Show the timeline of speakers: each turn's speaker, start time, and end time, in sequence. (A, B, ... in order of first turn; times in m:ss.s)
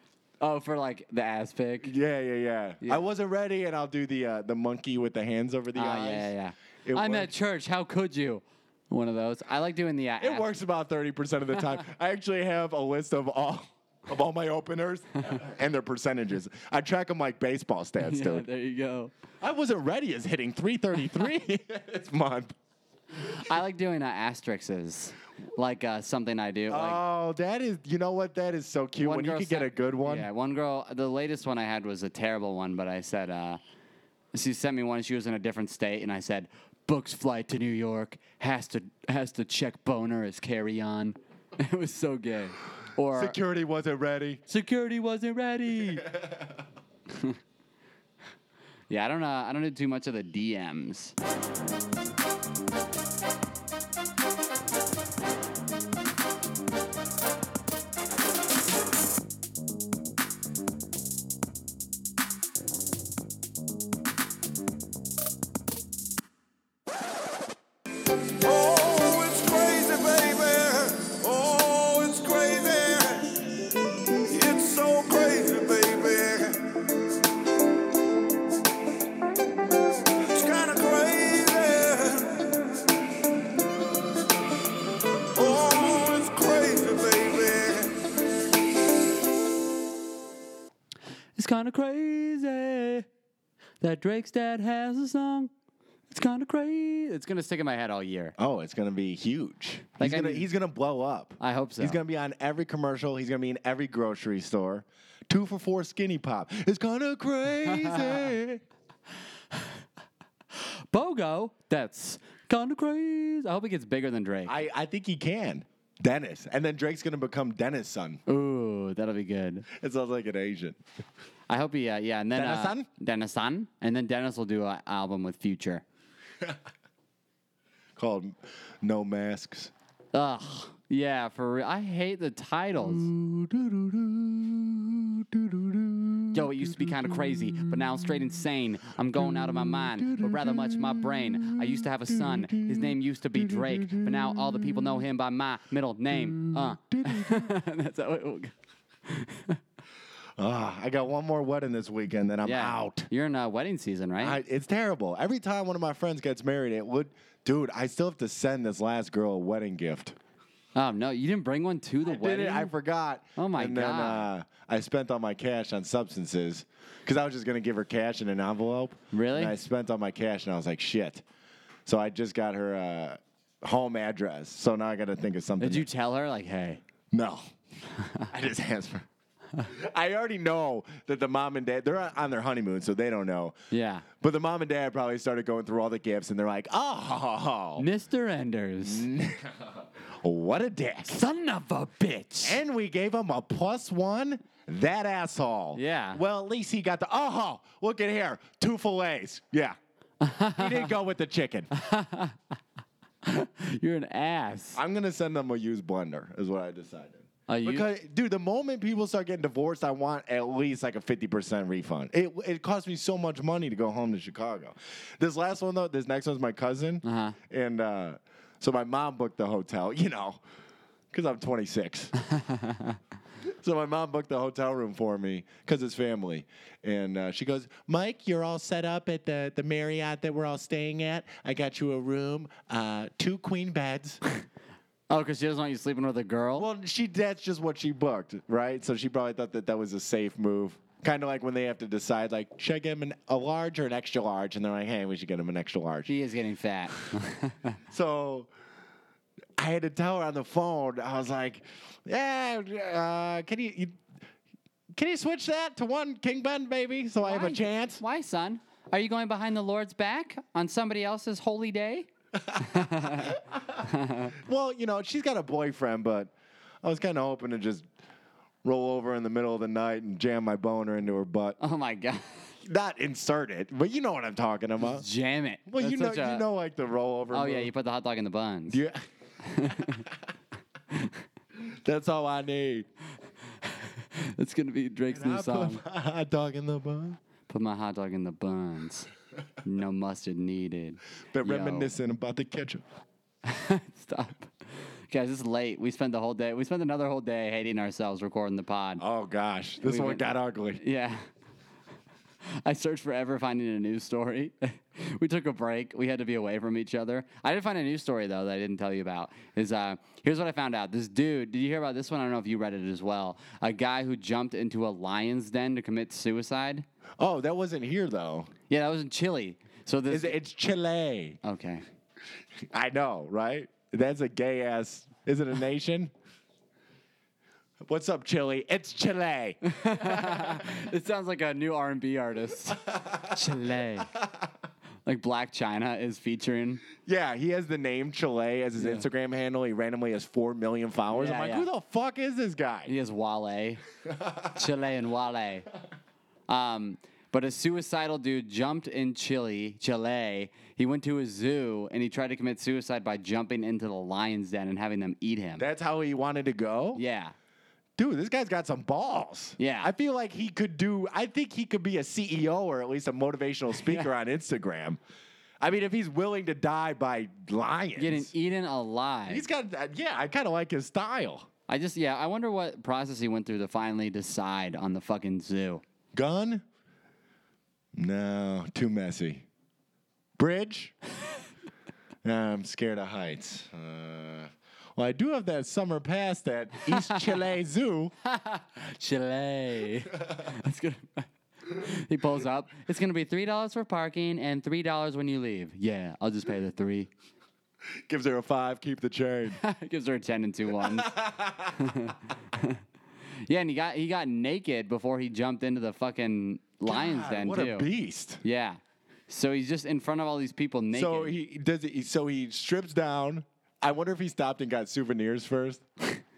0:00.4-0:01.9 A
0:01.8-0:06.3 B
0:05.8-0:10.5 A
0:06.8-0:07.3 B
0:10.2-0:18.5 B
0:18.0-0:19.1 A
0:19.4-0:22.6 B
0:23.2-0:27.0 A
0:26.7-0:30.3 B
0:29.0-0:33.6 A
0:34.3-0:43.4 A
0:43.1-0:44.4 B
0:44.5-0:46.1 A
0:45.9-0:46.6 B
0:47.1-0:47.4 A
0:48.9-0:51.2 A
1:08.4-1:13.6 C
1:14.3-1:16.8 C
1:20.2-1:22.6 C
1:25.4-1:28.0 C
1:31.4-1:33.1 A
1:33.8-1:35.5 A
1:36.1-1:38.4 A
1:38.4-1:48.6 B
1:40.0-1:40.5 A
1:41.4-1:42.0 A
1:47.7-1:48.3 A
1:50.6-1:54.6 A
1:54.5-1:58.2 B
1:58.3-1:59.7 A
1:59.7-2:00.8 B
2:01.5-2:05.8 A
2:02.3-2:02.9 B
2:08.0-2:09.7 B
2:10.1-2:13.1 A
2:12.8-2:18.2 B
2:16.3-2:28.5 A
2:19.2-2:25.0 B
2:26.1-2:27.5 B
2:29.1-2:29.6 A
2:30.4-2:33.1 B
2:32.4-2:34.4 A
2:34.2-2:40.2 B
2:40.8-2:42.7 A
2:42.0-2:51.2 B
2:43.4-2:44.3 A
2:49.1-2:49.6 A
2:51.9-2:55.9 B
2:55.6-2:56.8 A
2:57.1-2:57.4 B
2:58.0-2:58.3 A
2:58.3-2:59.1 B
2:59.6-3:03.6 B
3:03.7-3:04.1 A
3:04.2-3:07.9 B
3:07.8-3:09.0 A
3:08.8-3:11.2 B
3:11.1-3:12.6 A
3:12.4-3:19.8 B
3:15.8-3:16.2 A
3:20.2-3:20.9 A
3:20.4-3:21.7 B
3:21.7-3:22.4 A
3:23.2-3:24.8 A
3:24.8-3:40.4 B
3:27.5-3:27.9 A
3:37.0-3:37.4 A
3:41.1-3:42.1 B
3:42.2-3:43.0 A
3:43.5-3:54.2 B
3:55.1-3:56.7 A
3:56.6-4:06.1 B
4:06.1-4:07.8 A
4:07.9-4:08.5 B
4:09.6-4:14.0 B
4:14.9-4:18.0 B
4:17.2-4:24.4 A
4:22.4-4:27.9 B
4:28.6-4:31.6 B
4:31.6-4:32.5 A
4:32.6-4:35.0 B
4:34.8-4:36.4 A
4:35.7-4:37.7 B
4:37.3-4:38.8 A
4:38.7-4:39.0 B
4:39.4-4:40.1 A
4:40.9-4:41.2 A
4:41.6-4:42.9 B
4:43.6-4:45.8 A
4:45.1-4:47.2 B
4:47.5-4:49.1 A
4:49.6-4:51.9 A
4:51.3-4:52.8 B
4:53.4-4:54.5 A
4:55.1-4:59.0 A
4:59.0-5:00.8 B
4:59.8-5:01.2 A
5:02.5-5:16.9 A
5:17.2-5:18.5 B
5:18.7-5:20.4 A
5:20.1-5:21.4 B
5:21.4-5:21.8 A
5:22.7-5:26.1 B
5:27.9-5:30.7 B
5:29.6-5:34.1 A
5:32.7-5:34.5 B
5:35.1-5:36.8 A
5:37.0-5:42.9 B
5:38.8-5:39.0 A
5:41.1-5:41.7 A
5:42.9-5:43.8 A
5:44.1-5:44.6 B
5:44.5-5:45.7 A
5:46.5-5:55.7 A
5:55.6-5:57.0 B
5:57.0-5:57.3 A
5:58.0-6:05.0 B
5:59.6-5:59.9 A
6:03.8-6:04.1 A
6:05.6-6:08.3 B
6:08.0-6:09.4 A
6:09.3-6:11.5 B
6:11.7-6:15.8 A
6:16.1-6:16.6 B
6:18.0-6:19.5 B
6:20.4-6:21.0 B
6:22.2-6:28.1 B
6:26.9-6:27.4 A
6:28.2-6:37.1 A
6:38.1-6:39.6 B
6:39.5-6:41.2 A
6:40.8-6:41.9 B
6:41.7-6:42.8 A
6:43.4-6:47.9 A
6:46.8-6:48.4 B
6:48.4-6:51.4 A
6:50.9-6:55.8 B